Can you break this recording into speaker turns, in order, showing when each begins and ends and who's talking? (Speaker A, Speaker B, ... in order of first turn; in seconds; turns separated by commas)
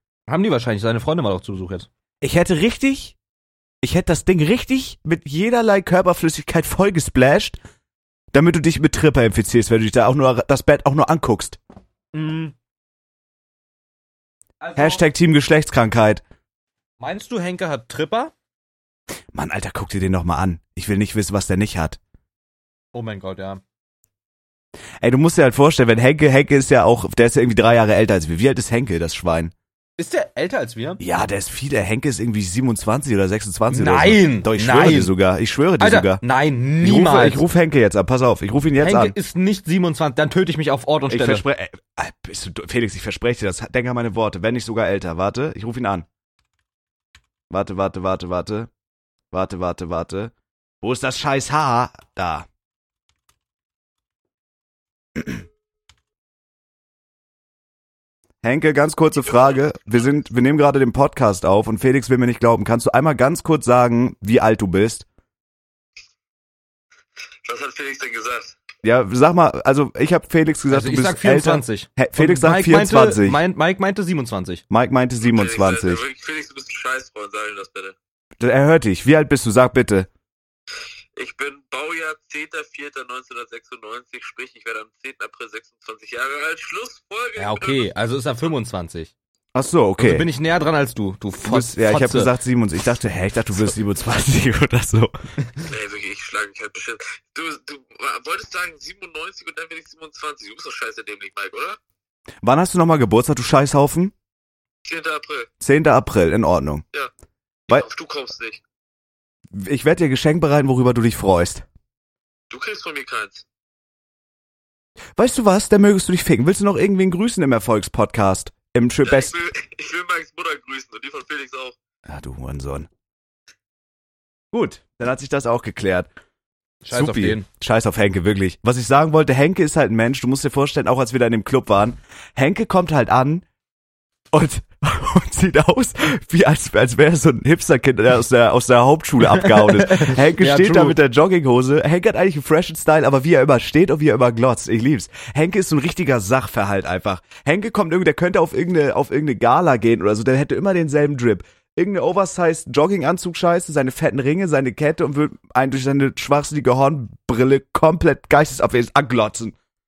Speaker A: 0.3-1.9, Speaker B: 2.2-3.2, Speaker B: 3.8-7.6, Speaker B: 8.3-11.6, Speaker A: 12.1-12.5, Speaker A: 14.6-15.1, Speaker B: 14.8-16.2, Speaker A: 17.0-18.3, Speaker B: 19.3-22.0, Speaker A: 22.9-23.6, Speaker B: 25.0-29.5, Speaker A: 30.0-31.0, Speaker B: 31.0-36.2, Speaker A: 33.7-35.1, Speaker A: 35.8-37.4, Speaker B: 36.8-39.1, Speaker A: 38.8-41.4, Speaker B: 41.1-46.1, Speaker B: 47.5-48.7, Speaker B: 49.3-52.5, Speaker B: 58.4-65.1, Speaker C: 67.4-68.6, Speaker B: 68.8-73.4, Speaker A: 70.7-74.6, Speaker B: 74.7-76.0, Speaker C: 75.2-78.0, Speaker B: 78.4-80.1, Speaker C: 81.2-87.9, Speaker A: 87.4-89.1, Speaker B: 89.5-90.3, Speaker A: 90.0-92.3, Speaker B: 91.4-95.1, Speaker C: 95.7-101.8, Speaker B: 102.4-104.1, Speaker C: 104.8-105.5, Speaker B: 105.6-106.8, Speaker C: 107.7-108.6, Speaker B: 109.5-111.7, Speaker C: 112.5-113.5, Speaker B: 115.2-119.3, Speaker C: 119.0-121.7, Speaker B: 122.1-122.9, Speaker B: 124.5-126.1, Speaker A: 126.8-127.5, Speaker B: 126.9-133.4, Speaker B: 134.3-159.6, Speaker A: 139.3-141.0